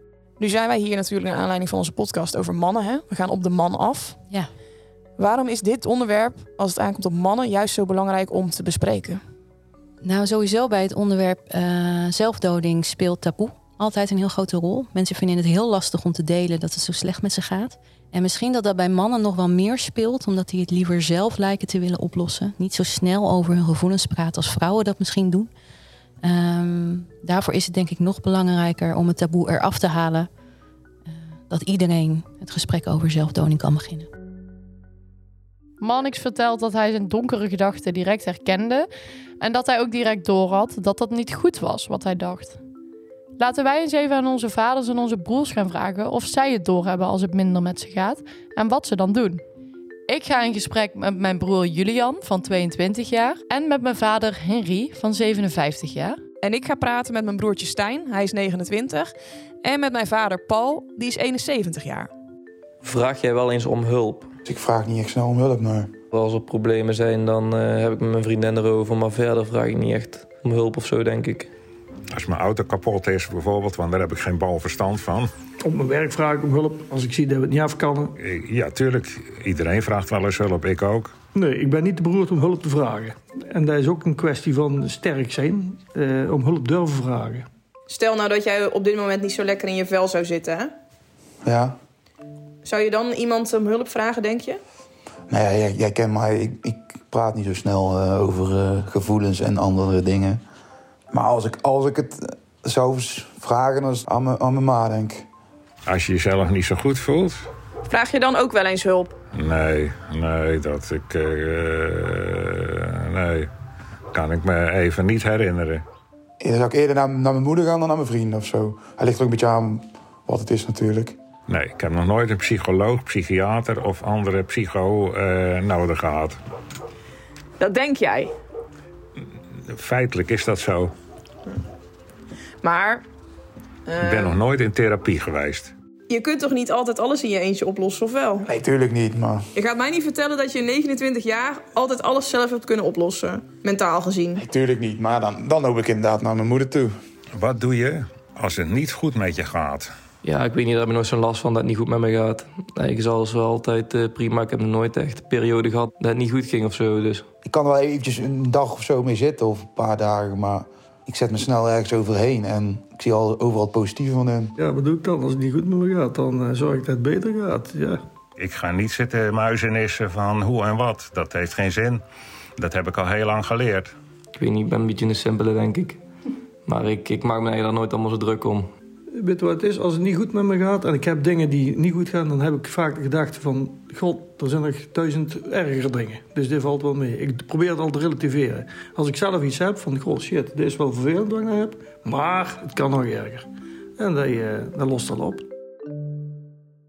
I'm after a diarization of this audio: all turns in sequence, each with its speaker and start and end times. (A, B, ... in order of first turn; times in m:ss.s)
0:00.4-0:04.2 A
0:05.2-0:09.2 A
0:10.0-0:25.5 B
0:26.2-0:30.3 B
0:31.1-0:34.1 B
0:35.8-0:38.9 C
0:39.4-0:42.6 C
0:43.4-0:49.4 C
0:50.1-0:56.2 C
0:56.4-1:02.1 A
1:02.8-1:04.3 D
1:04.4-1:05.9 E
1:06.1-1:11.5 D
1:12.1-1:15.3 F
1:15.6-1:18.1 G
1:18.2-1:21.1 F
1:21.4-1:27.5 G
1:27.9-1:30.7 A
1:31.4-1:31.8 E
1:32.6-1:34.6 A
1:35.3-1:40.4 E
1:41.1-1:45.3 E
1:45.9-1:47.5 F
1:47.9-1:49.2 A
1:49.3-1:53.5 F
1:54.1-1:55.8 F
1:56.4-2:01.2 E
2:01.5-2:06.4 F
2:07.6-2:08.3 A
2:09.7-2:10.9 F
2:12.6-2:13.0 A
2:13.9-2:14.4 A
2:14.0-2:15.7 F
2:16.1-2:18.5 A
2:18.5-2:19.5 E
2:19.6-2:24.4 A
2:24.4-2:27.0 E
2:27.4-2:29.9 F
2:30.2-2:37.3 D
2:37.4-2:44.6 E
2:44.6-2:48.0 G
2:48.4-2:52.0 F
2:52.6-2:53.9 F
2:54.4-2:56.0 D
2:56.7-2:58.7 D
2:59.1-3:13.5 G
3:14.0-3:15.5 G